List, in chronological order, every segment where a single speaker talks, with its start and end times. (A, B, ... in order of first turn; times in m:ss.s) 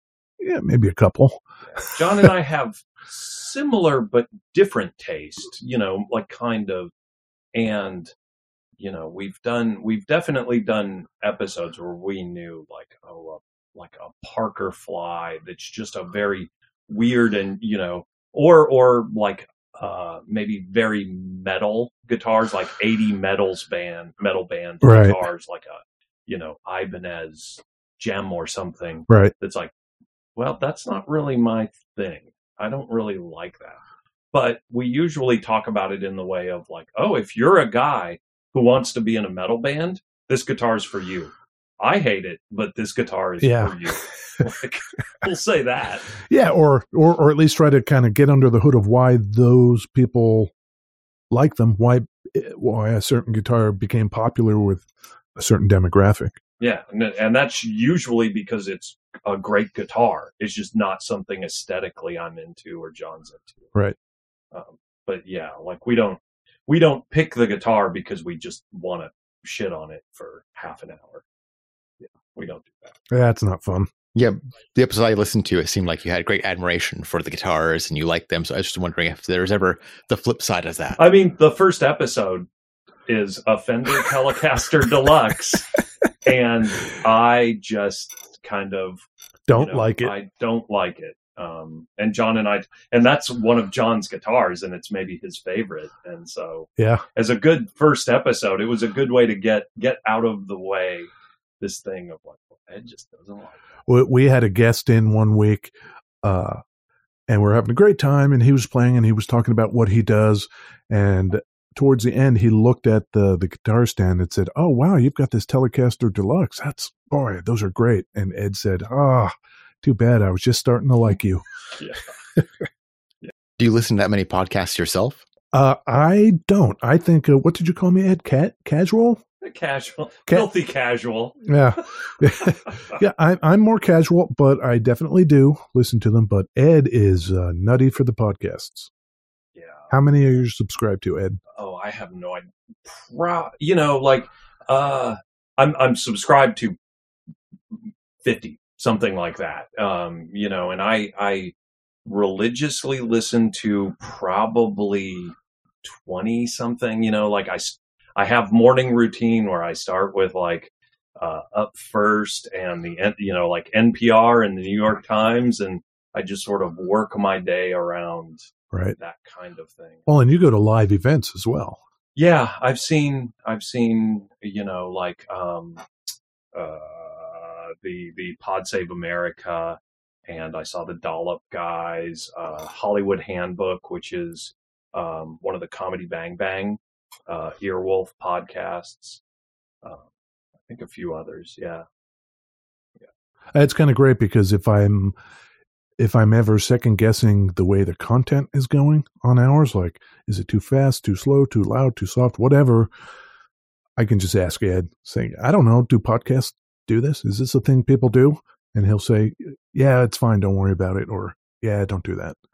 0:00.4-0:01.4 A
0:01.7-0:06.9 B
0:07.5-0:08.1 B
0:08.8-0:29.7 B
0:24.8-0:25.2 A
0:30.4-0:33.8 B
0:34.3-0:46.2 B
0:43.4-0:44.4 A
0:46.2-0:50.5 A
0:51.3-0:56.4 A
0:56.6-1:03.7 B
1:04.5-1:11.2 B
1:12.0-1:13.0 B
1:13.1-1:13.9 A
1:14.1-1:21.0 C
1:21.0-1:22.5 B
1:23.0-1:43.6 B
1:29.5-1:30.1 A
1:36.8-1:37.0 A
1:43.9-1:46.6 A
1:47.3-2:01.4 A
2:01.8-2:02.1 B
2:03.6-2:05.2 C
2:05.5-2:09.2 A
2:09.4-2:11.6 B
2:11.4-2:18.9 A
2:12.7-2:13.0 B
2:19.5-2:19.9 B
2:19.9-2:21.4 A
2:21.5-2:26.8 B
2:28.2-2:31.5 B
2:32.0-2:50.1 B
2:50.1-2:51.8 A
2:52.2-2:55.8 B
2:56.5-3:09.2 B
3:10.6-3:11.8 B
3:13.5-3:15.1 A
3:16.0-3:22.9 A
3:24.0-3:32.4 A